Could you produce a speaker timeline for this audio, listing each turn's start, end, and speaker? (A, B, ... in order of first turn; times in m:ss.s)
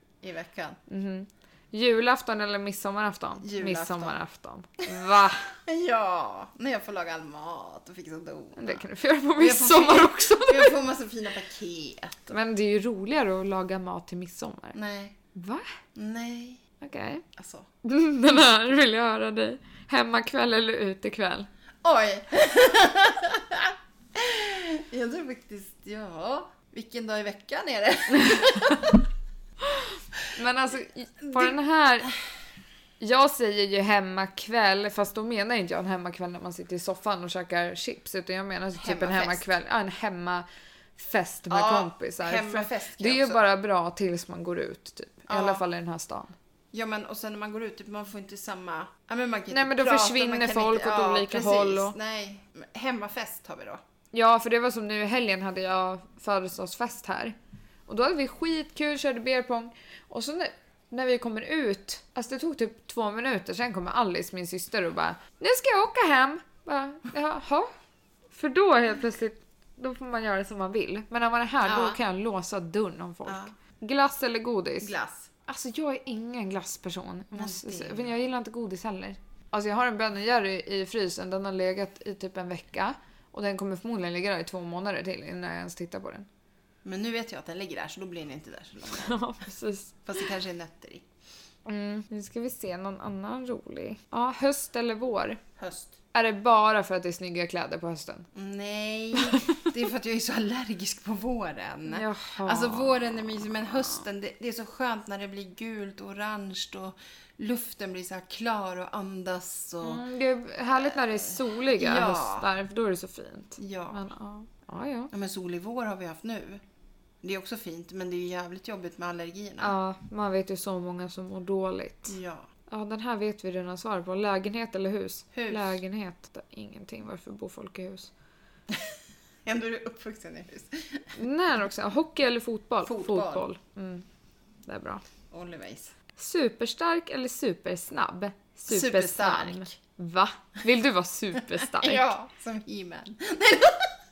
0:00.2-0:00.8 A
0:00.9-0:05.6 B
0:03.4-0:04.2 A
0:05.6-0:08.8 A
0:08.6-0:10.8 B
0:09.4-0:12.4 A
0:12.3-0:14.8 B
0:14.8-0:15.2 A
0:15.3-0:15.6 B
0:16.0-0:16.6 A
0:16.8-0:17.2 B
0:17.4-0:17.6 A
0:17.8-0:21.5 B
0:21.8-0:29.0 A
0:29.6-0:32.1 B
0:31.3-0:31.6 A
0:33.0-0:46.3 B
0:38.8-0:39.4 A
0:41.5-0:43.4 A
0:45.3-0:45.6 A
0:46.7-0:53.8 A
0:49.5-0:51.9 B
0:54.1-0:57.4 B
0:57.9-1:07.7 B
1:08.3-1:14.9 B
1:11.6-1:12.0 A
1:13.2-1:13.5 A
1:14.8-1:15.3 A
1:15.4-1:26.3 B
1:17.3-1:18.2 A
1:26.8-1:29.2 A
1:29.0-1:30.0 B
1:30.0-1:31.0 A
1:31.6-1:35.4 B
1:35.6-1:35.9 A
1:36.1-1:38.3 B
1:38.4-1:50.0 A
1:39.2-1:39.6 B
1:41.9-1:44.0 B
1:49.8-1:55.1 B
1:50.8-1:52.5 A
1:53.6-1:54.1 A
1:55.1-1:56.6 A
1:57.2-1:59.8 A
1:59.6-2:02.2 B
2:02.1-2:02.5 A
2:02.7-2:08.1 B
2:05.3-2:05.8 A
2:09.5-2:11.0 A
2:11.2-2:14.0 B
2:12.8-2:13.5 A
2:14.6-2:15.0 B
2:15.3-2:15.9 A
2:16.2-2:22.1 B
2:18.7-2:19.7 A
2:21.7-2:23.9 A